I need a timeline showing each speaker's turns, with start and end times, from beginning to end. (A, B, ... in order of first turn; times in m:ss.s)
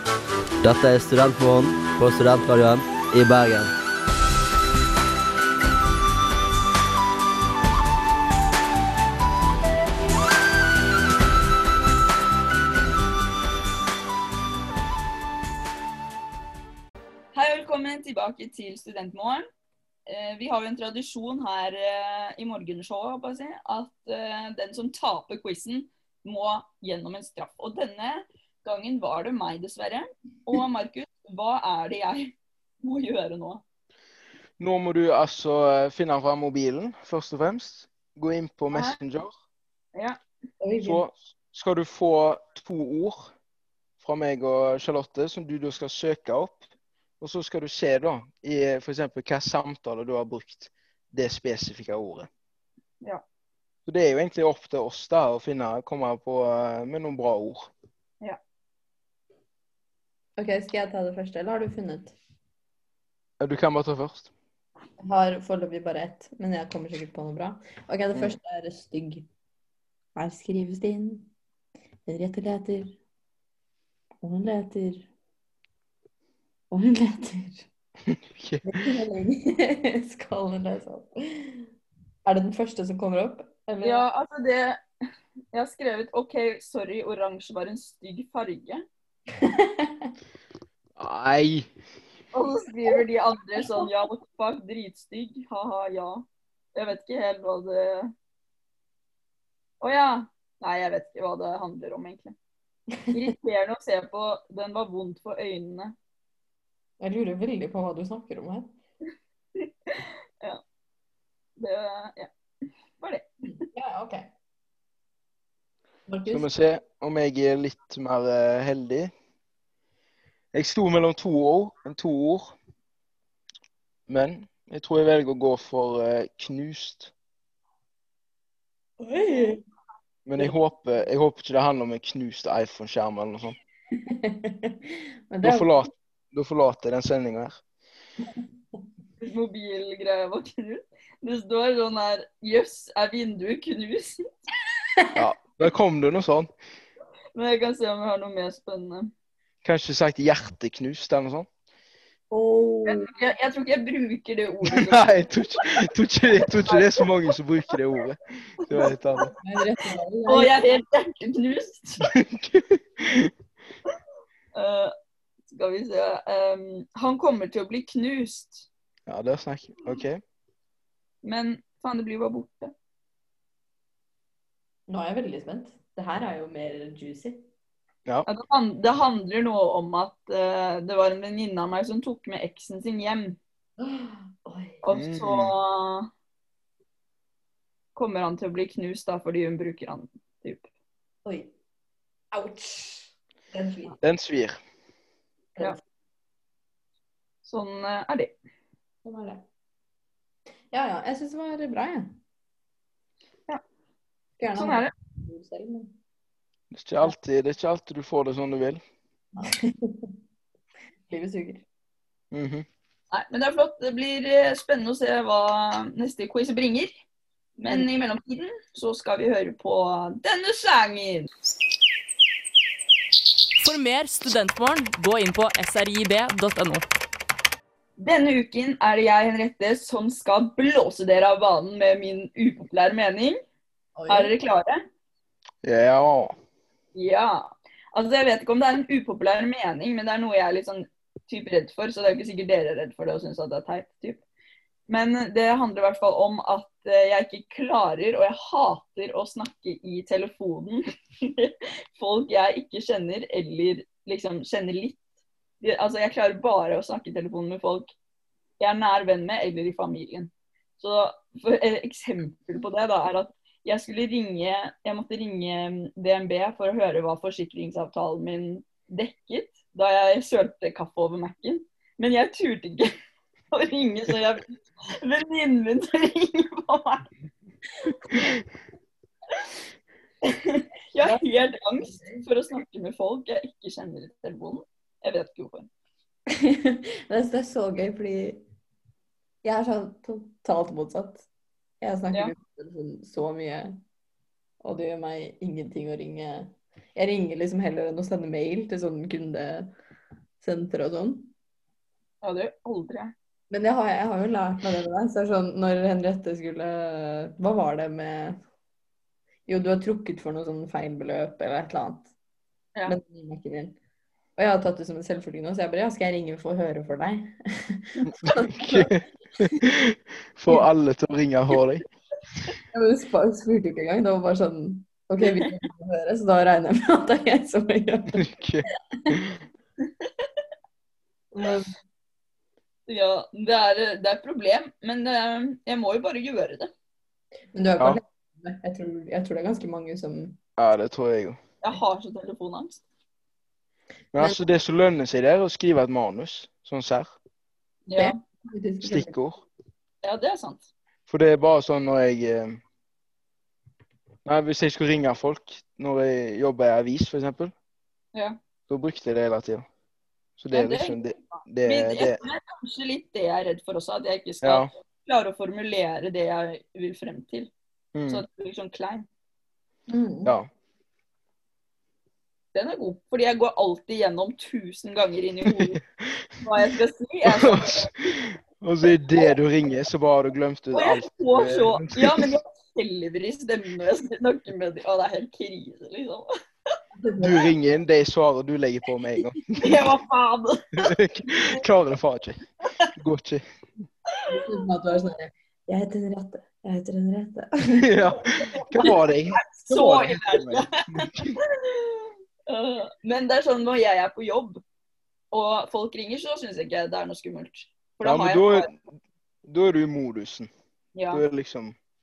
0:00.6-0:03.7 A
0:17.3-0:19.5 B
0:20.1-0:33.6 B
0:34.6-0:39.3 C
0:38.7-0:39.0 B
0:40.6-0:41.0 D
0:40.8-0:43.3 C
0:44.0-0:46.6 C
0:47.2-0:52.3 C
0:53.8-0:57.7 C
1:00.4-1:02.2 D
1:03.4-1:04.3 C
1:05.0-1:09.3 D
1:10.1-1:11.3 D
1:12.0-1:13.0 D
1:14.2-1:15.1 D
1:16.7-1:17.7 D
1:18.1-1:18.7 C
1:18.6-1:21.7 D
1:22.2-1:24.0 D
1:23.8-1:24.8 B
1:25.5-1:28.8 B
1:29.3-1:30.1 D
1:31.0-1:31.7 C
1:32.3-1:38.1 B
1:33.6-1:33.9 D
1:39.8-1:42.3 B
1:43.0-1:43.3 D
1:43.1-1:45.9 B
1:47.0-1:48.7 D
1:49.6-1:50.6 B
1:51.6-1:52.3 B
1:53.0-1:53.3 B
1:53.4-1:54.3 D
1:56.1-1:56.5 D
1:56.3-1:59.1 C
2:00.5-2:02.5 C
2:04.1-2:07.1 C
2:09.0-2:09.6 D
2:10.2-2:13.6 C
2:13.9-2:15.9 D
2:15.4-2:17.6 C
2:19.2-2:24.2 B
2:25.0-2:25.2 D
2:25.1-2:26.5 C
2:27.3-2:29.1 B
2:29.6-2:31.5 C
2:32.3-2:33.1 D
2:32.8-2:35.1 B
2:34.7-2:39.3 C
2:36.6-2:37.1 B
2:38.8-2:39.2 B
2:38.8-2:40.8 D
2:40.2-2:42.1 B
2:42.0-2:43.3 C
2:44.5-2:44.9 B
2:45.5-2:48.7 B
2:49.1-2:50.2 C
2:51.2-2:52.7 B
2:54.9-2:57.4 D
2:58.2-3:03.4 B
3:03.8-3:04.8 D
3:04.8-3:06.1 B
3:04.9-3:05.5 C
3:07.9-3:10.6 B
3:11.2-3:11.5 D
3:12.3-3:14.0 D
3:14.0-3:14.6 C
3:17.4-3:18.4 B
3:19.0-3:19.4 D
3:20.7-3:22.1 D
3:24.4-3:25.9 D
3:24.5-3:24.9 B
3:26.7-3:28.8 C
3:29.3-3:30.1 D
3:31.1-3:31.6 D
3:32.3-3:32.6 C
3:33.1-3:36.9 B
3:37.6-3:41.3 B
3:43.6-3:46.8 E
3:48.0-3:53.4 B
3:54.0-3:54.3 D
3:54.1-3:54.8 B
3:55.6-3:56.3 C
3:56.9-4:04.2 B
4:04.9-4:15.0 B
4:15.6-4:17.9 B
4:18.6-4:32.9 B
4:33.5-4:37.1 B
4:40.2-4:45.7 B
4:41.0-4:42.2 D
4:46.3-4:48.4 D
4:49.4-4:51.3 D
4:51.8-4:53.8 D
4:54.6-4:59.7 D
5:00.4-5:01.3 D
5:02.2-5:03.1 B
5:03.5-5:08.4 D
5:09.5-5:12.1 D
5:12.8-5:13.8 D
5:14.4-5:18.9 D
5:18.2-5:21.8 C
5:22.7-5:28.2 D
5:28.2-5:29.4 C
5:31.3-5:31.7 D
5:32.9-5:36.7 B
5:37.5-5:40.4 D
5:40.6-5:41.4 C
5:41.6-5:42.8 B
5:44.1-5:47.2 C
5:44.2-5:44.4 D
5:47.9-5:48.2 B
5:48.0-5:49.2 D
5:48.8-5:49.4 C
5:50.0-5:50.7 B
5:51.1-5:52.6 C
5:54.2-5:57.5 C
5:58.7-5:59.6 C
6:00.4-6:02.2 C
6:00.5-6:07.5 B
6:04.4-6:04.7 C
6:07.9-6:08.2 C
6:08.1-6:09.1 B
6:09.9-6:10.3 D
6:12.5-6:15.8 B
6:15.5-6:16.2 C
6:16.4-6:17.9 B
6:17.2-6:22.3 C
6:20.7-6:26.3 B
6:27.0-6:27.5 D
6:27.2-6:29.8 C
6:29.6-6:30.9 B
6:30.8-6:32.4 C
6:33.0-6:33.4 C
6:34.3-6:38.0 D
6:37.7-6:41.3 C
6:38.8-6:44.6 B
6:45.3-6:48.7 B
6:48.0-6:48.8 C
6:49.4-6:50.5 C
6:50.9-6:51.2 B
6:51.1-6:51.8 C